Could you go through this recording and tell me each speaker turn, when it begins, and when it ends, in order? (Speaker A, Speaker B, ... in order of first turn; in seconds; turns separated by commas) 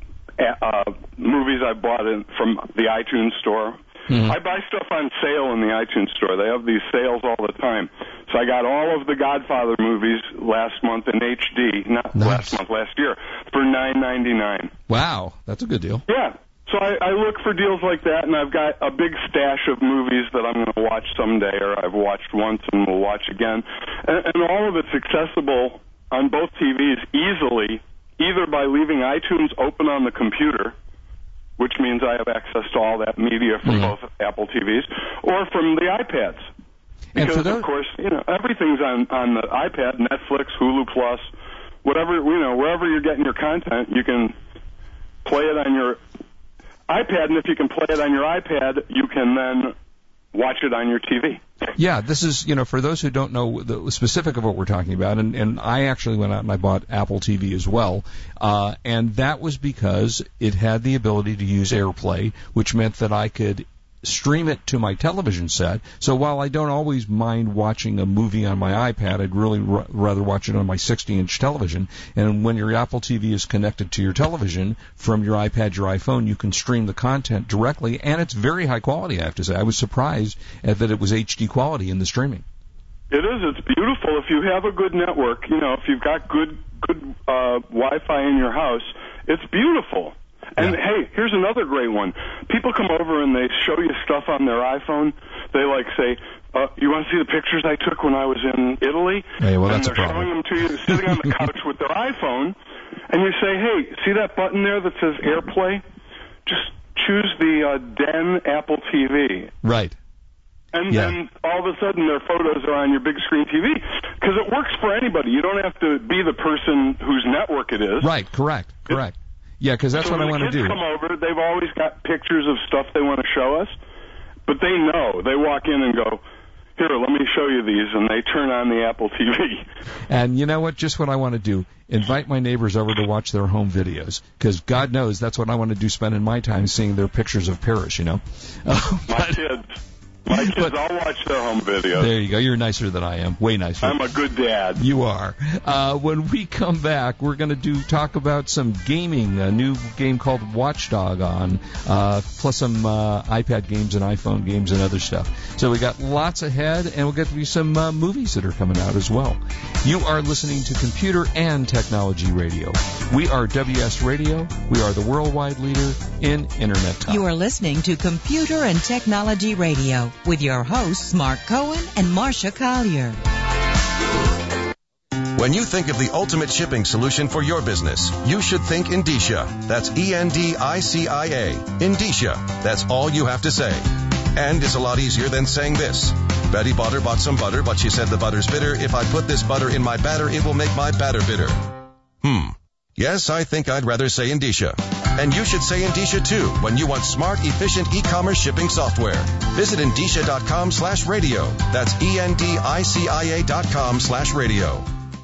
Speaker A: 0.4-14.7, Speaker B: 4.1-4.3, Speaker B: 12.1-12.6, Speaker B: 14.9-16.0, Speaker A: 16.1-30.7, Speaker A: 31.6-36.5, Speaker B: 33.6-33.9, Speaker B: 37.1-37.7, Speaker A: 37.1-41.3, Speaker A: 41.8-44.3, Speaker A: 45.2-46.0, Speaker A: 46.9-49.7, Speaker A: 50.3-51.4, Speaker B: 51.8-82.4, Speaker A: 83.1-102.5, Speaker B: 99.4-100.3, Speaker B: 100.8-101.4, Speaker A: 103.1-105.8, Speaker A: 106.5-109.5, Speaker B: 109.6-110.0, Speaker A: 110.7-118.1, Speaker B: 110.9-111.2, Speaker B: 118.0-120.8, Speaker A: 119.9-123.7, Speaker A: 124.5-126.2, Speaker A: 126.8-129.7, Speaker B: 130.1-139.4, Speaker A: 139.1-142.1, Speaker B: 140.3-140.7, Speaker B: 142.0-144.0, Speaker A: 143.8-144.8, Speaker B: 144.8-167.3, Speaker C: 167.1-173.2, Speaker D: 175.3-191.7, Speaker D: 192.2-204.9